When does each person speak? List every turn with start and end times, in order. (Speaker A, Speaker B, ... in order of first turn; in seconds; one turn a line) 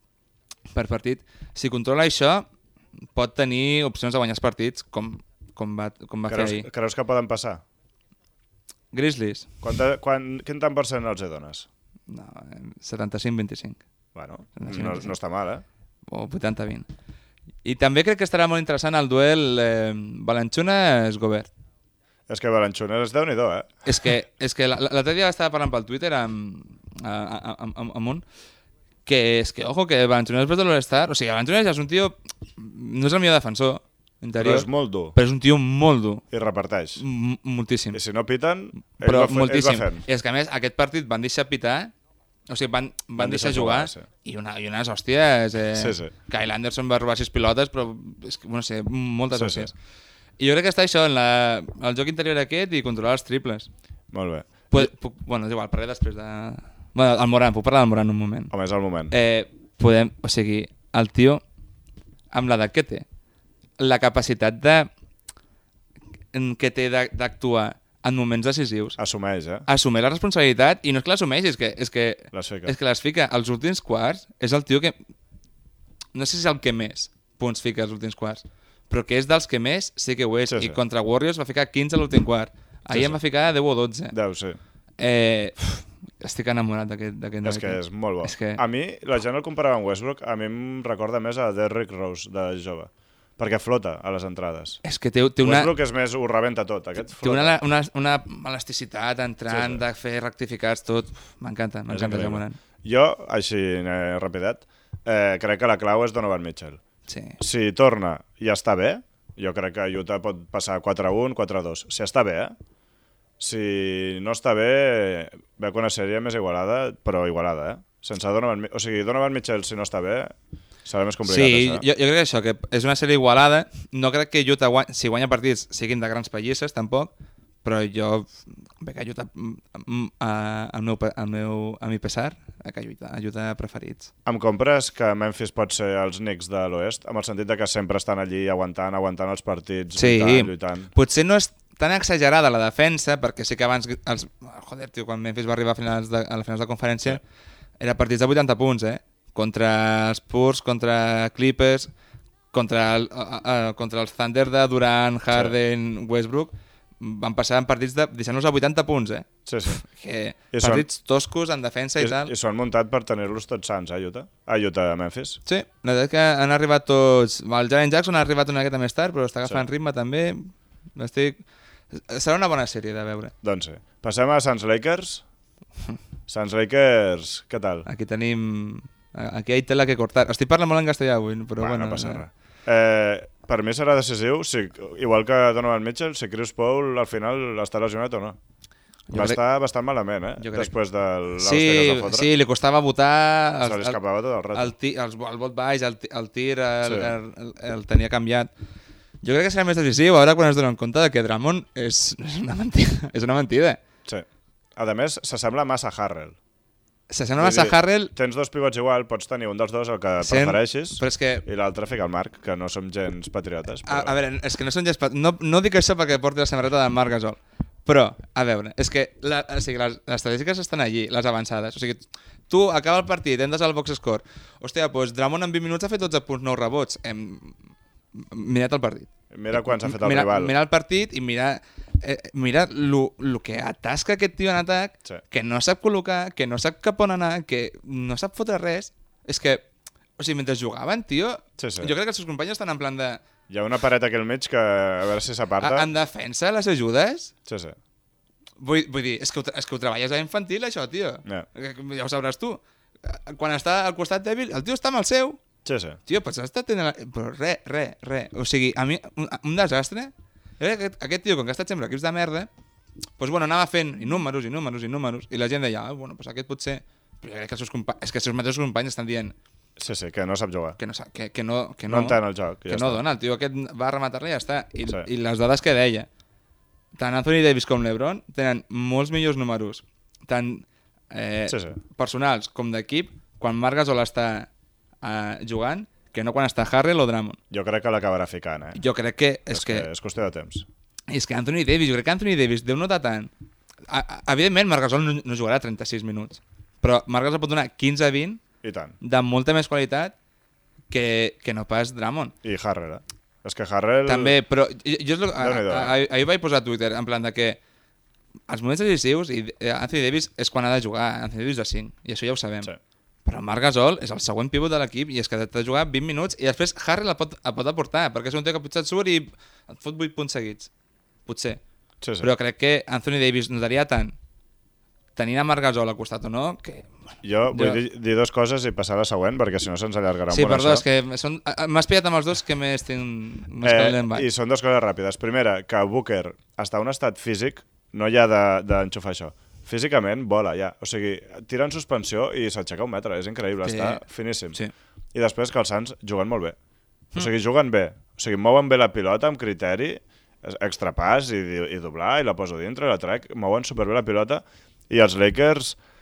Speaker A: 0.7-2.5
Speaker A: 3.1-6.7
Speaker B: 6.3-7.6
Speaker A: 8.9-9.6
Speaker B: 9.6-11.7
Speaker A: 12.1-13.8
Speaker B: 14.1-15.6
Speaker A: 14.6-15.1
Speaker A: 16.1-16.9
Speaker A: 17.6-21.5
Speaker B: 22.3-24.1
Speaker A: 23.8-28.2
Speaker A: 29.1-36.2
Speaker B: 34.4-35.1
Speaker B: 36.3-37.0
Speaker A: 37.0-38.0
Speaker B: 37.9-40.0
Speaker A: 39.0-41.9
Speaker A: 42.5-49.7
Speaker B: 43.2-44.0
Speaker B: 45.7-46.1
Speaker B: 49.3-49.7
Speaker A: 50.4-53.7
Speaker B: 54.1-54.9
Speaker A: 54.7-58.5
Speaker B: 58.5-59.1
Speaker A: 59.1-61.4
Speaker A: 62.3-63.0
Speaker A: 63.8-64.9
Speaker A: 66.3-69.0
Speaker B: 69.0-69.7
Speaker A: 69.7-75.0
Speaker B: 72.3-72.7
Speaker A: 76.1-84.1
Speaker B: 80.5-80.8
Speaker B: 82.9-83.2
Speaker B: 84.1-84.6
Speaker A: 85.0-88.6
Speaker B: 87.4-94.8
Speaker A: 94.8-95.7
Speaker B: 95.4-97.6
Speaker A: 97.2-102.6
Speaker B: 99.5-99.8
Speaker B: 101.9-106.8
Speaker A: 107.1-107.4
Speaker B: 107.4-112.5
Speaker B: 113.4-120.3
Speaker B: 120.8-121.8
Speaker A: 121.2-127.1
Speaker A: 127.6-134.1
Speaker B: 134.2-140.9
Speaker A: 139.9-147.2
Speaker A: 147.8-151.9
Speaker A: 152.5-162.3
Speaker B: 159.4-159.8
Speaker B: 160.5-160.8
Speaker B: 162.0-165.4
Speaker A: 165.4-173.3
Speaker B: 173.4-175.2
Speaker B: 176.3-177.8
Speaker A: 177.8-182.2
Speaker B: 181.6-188.4
Speaker A: 189.1-189.4
Speaker B: 189.1-192.3
Speaker A: 190.4-190.7
Speaker A: 191.4-194.0
Speaker B: 193.6-194.7
Speaker A: 194.5-198.5
Speaker B: 196.8-197.1
Speaker A: 199.2-203.8
Speaker B: 204.1-206.4
Speaker A: 207.1-208.1
Speaker B: 207.4-214.1
Speaker A: 210.2-211.4
Speaker A: 213.8-227.6
Speaker A: 228.1-239.7
Speaker B: 229.3-230.5
Speaker A: 240.2-243.2
Speaker B: 241.6-241.9
Speaker B: 243.5-245.9
Speaker A: 245.6-247.3
Speaker B: 247.4-247.8
Speaker A: 248.6-255.4
Speaker B: 255.6-256.0
Speaker A: 256.1-262.5
Speaker A: 263.2-269.4
Speaker B: 269.8-270.8
Speaker A: 270.8-276.1
Speaker B: 271.9-273.0
Speaker A: 276.9-284.5
Speaker B: 281.5-281.8
Speaker A: 285.0-287.4
Speaker B: 287.5-288.8
Speaker A: 288.8-289.9
Speaker B: 289.5-290.6
Speaker A: 291.1-293.3
Speaker A: 293.9-298.4
Speaker B: 298.6-299.0
Speaker A: 299.0-300.1
Speaker A: 300.9-302.3
Speaker B: 302.4-304.4
Speaker A: 304.1-307.6
Speaker B: 305.4-306.0
Speaker A: 308.5-312.7
Speaker A: 313.2-320.7
Speaker A: 321.2-321.6
Speaker B: 322.0-322.3
Speaker A: 322.2-324.1
Speaker A: 325.1-326.9
Speaker B: 327.2-330.8
Speaker A: 327.5-327.8
Speaker A: 330.3-334.2
Speaker B: 333.6-344.6
Speaker A: 343.6-344.0
Speaker B: 345.1-346.6
Speaker B: 347.1-355.8